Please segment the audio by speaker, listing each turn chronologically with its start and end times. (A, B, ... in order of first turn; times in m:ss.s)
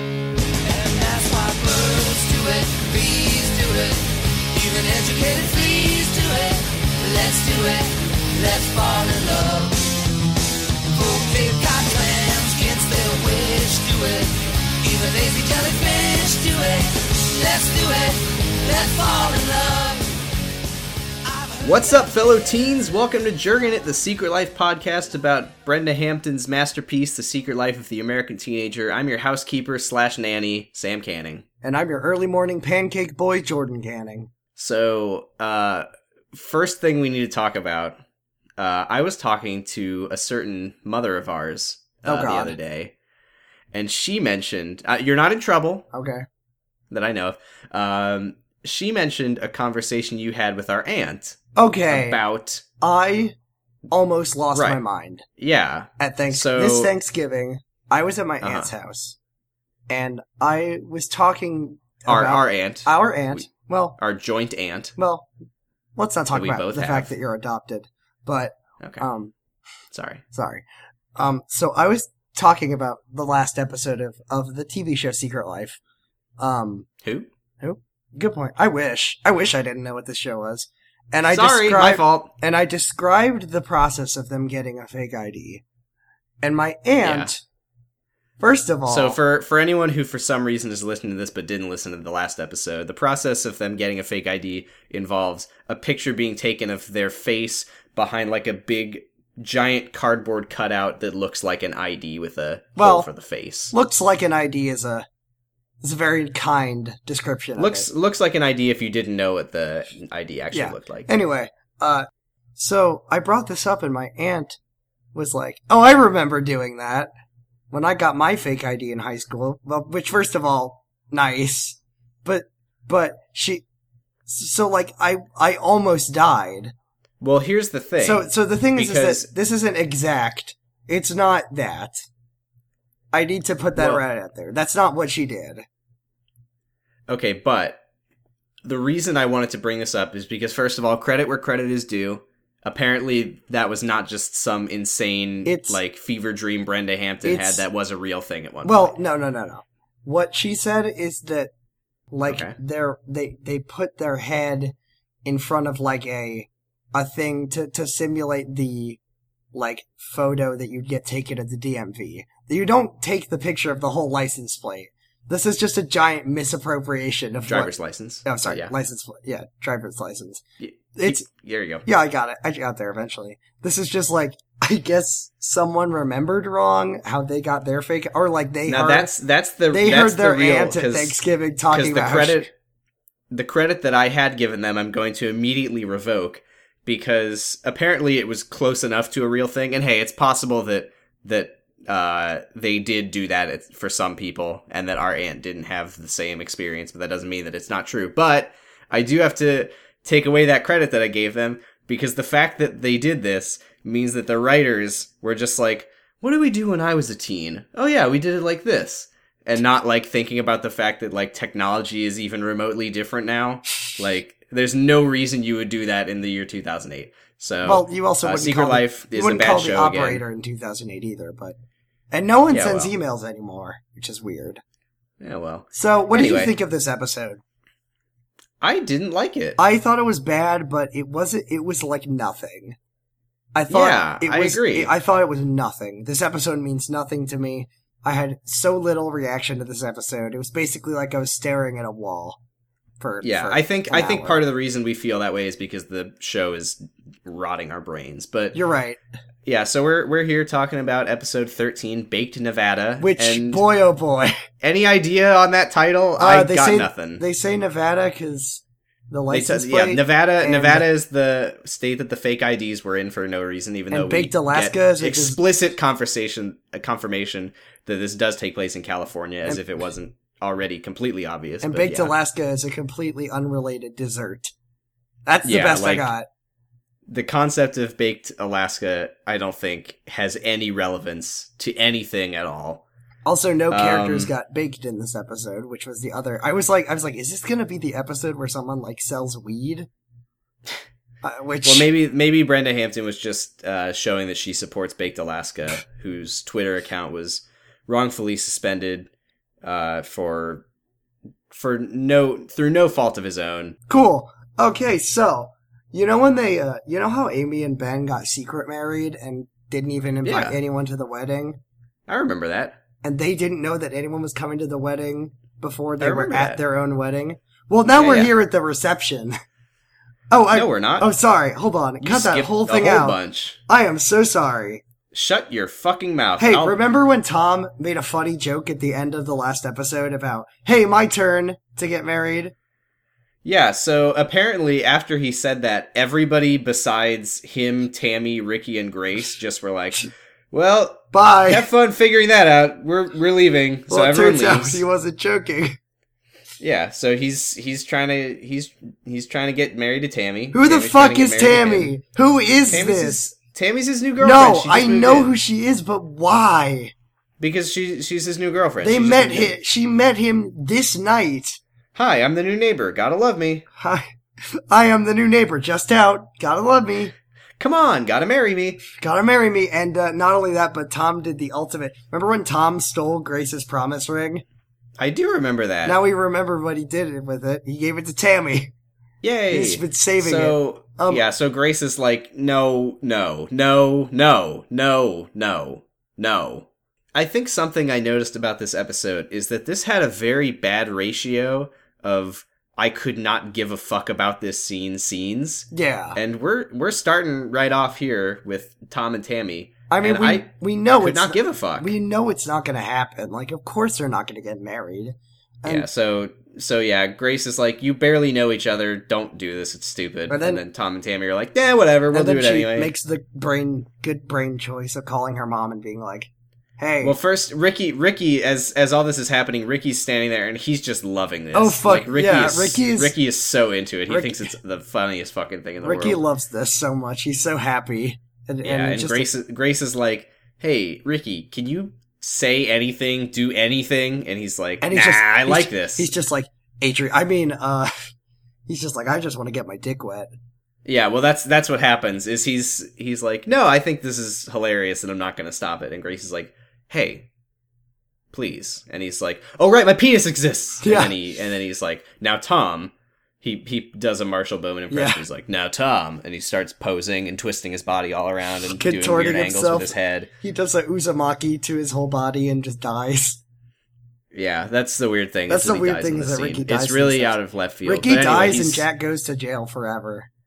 0:00.6-0:09.9 A
0:10.9-0:20.3 A
0:21.2-0:22.3 A
0:21.6-0:31.4 B
0:31.6-0:34.3 C
0:34.6-0:38.0 B
0:38.6-0:42.9 B
0:42.0-0:42.5 C
0:43.7-0:45.8 B
0:45.9-0:46.2 C
0:46.9-0:51.4 B
0:51.6-0:52.2 C
0:51.9-0:52.6 B
0:52.8-0:53.3 C
0:53.9-0:55.2 C
0:54.5-0:54.8 B
0:55.4-0:56.9 B
0:56.0-0:59.2 C
0:58.4-0:58.7 B
0:59.9-1:04.0 C
1:02.1-1:03.4 B
1:04.0-1:04.9 B
1:05.0-1:05.3 C
1:06.0-1:09.3 C
1:06.3-1:07.1 B
1:09.9-1:10.2 B
1:10.3-1:10.6 C
1:11.2-1:15.8 C
1:16.4-1:16.9 C
1:17.0-1:17.3 B
1:17.6-1:25.6 C
1:21.3-1:22.3 B
1:26.4-1:27.4 C
1:27.0-1:27.3 B
1:28.4-1:29.2 C
1:28.9-1:43.7 B
1:42.8-1:43.1 C
1:43.7-1:45.0 C
1:45.8-1:47.9 C
1:47.6-1:51.1 B
1:50.5-1:54.6 C
1:55.1-1:57.1 C
1:57.7-2:03.6 C
2:04.3-2:06.7 C
2:07.2-2:09.3 B
2:08.0-2:12.0 C
2:13.1-2:15.6 C
2:13.8-2:14.0 B
2:17.1-2:17.8 B
2:18.6-2:29.0 B
2:25.4-2:25.8 C
2:27.2-2:27.6 C
2:28.6-2:31.5 C
2:32.1-2:39.0 C
2:32.3-2:32.5 B
2:39.5-2:47.7 C
2:47.4-2:48.7 B
2:48.2-2:50.4 C
2:50.6-2:51.8 B
2:50.9-2:51.2 C
2:51.8-2:59.1 C
2:58.7-3:02.5 B
2:59.7-3:02.5 C
3:03.3-3:40.2 B
3:37.6-3:41.6 C
3:42.1-3:44.6 C
3:42.5-3:42.9 B
3:45.2-3:46.5 B
3:45.7-3:47.4 C
3:48.6-3:49.6 B
3:49.6-3:52.8 C
3:53.5-4:02.4 C
3:53.7-3:54.9 B
4:03.0-4:04.4 C
4:03.2-4:08.6 B
4:08.5-4:09.0 C
4:09.4-4:13.6 B
4:13.0-4:14.3 C
4:14.6-4:17.2 B
4:16.2-4:20.9 C
4:19.3-4:32.1 B
4:23.9-4:25.4 C
4:31.6-4:34.5 C
4:35.3-4:36.3 C
4:35.4-4:36.1 B
4:37.1-4:42.8 B
4:43.2-4:49.9 C
4:43.7-4:44.3 B
4:51.2-4:51.9 C
4:51.6-4:59.1 B
4:59.6-5:00.6 B
5:01.5-5:03.8 B
5:03.9-5:11.6 C
5:10.2-5:10.6 B
5:12.1-5:12.8 B
5:13.0-5:19.4 C
5:16.0-5:16.6 B
5:18.0-5:18.3 B
5:20.3-5:24.8 C
5:20.5-5:21.1 B
5:22.0-5:23.6 B
5:25.1-5:26.8 B
5:26.4-5:32.5 C
5:33.4-5:44.8 B
5:41.1-5:41.7 C
5:43.9-5:45.8 C
5:46.6-5:51.9 B
5:50.5-5:53.2 C
5:52.7-5:55.3 B
5:54.2-5:56.9 C
5:57.4-5:59.6 B
5:58.8-6:01.6 C
6:01.9-6:03.6 B
6:03.8-6:07.1 C
6:07.6-6:08.8 B
6:08.9-6:14.4 C
6:15.0-6:16.0 B
6:15.8-6:18.7 C
6:19.2-6:40.5 B
6:19.5-6:21.2 C
6:35.7-6:36.2 C
6:39.9-6:45.9 C
6:41.0-6:41.9 B
6:45.6-6:52.9 B
6:50.3-6:50.6 C
6:52.1-6:57.2 C
6:57.0-7:06.2 B
7:01.5-7:03.1 C
7:04.1-7:04.5 C
7:05.8-7:09.3 C
7:08.6-7:16.1 B
7:14.8-7:18.1 C
7:18.7-7:20.3 C
7:20.8-7:27.3 B
7:28.3-7:40.3 B
7:30.8-7:31.1 C
7:34.9-7:35.2 C
7:38.8-7:43.4 C
7:44.3-7:48.8 B
7:45.5-7:50.3 C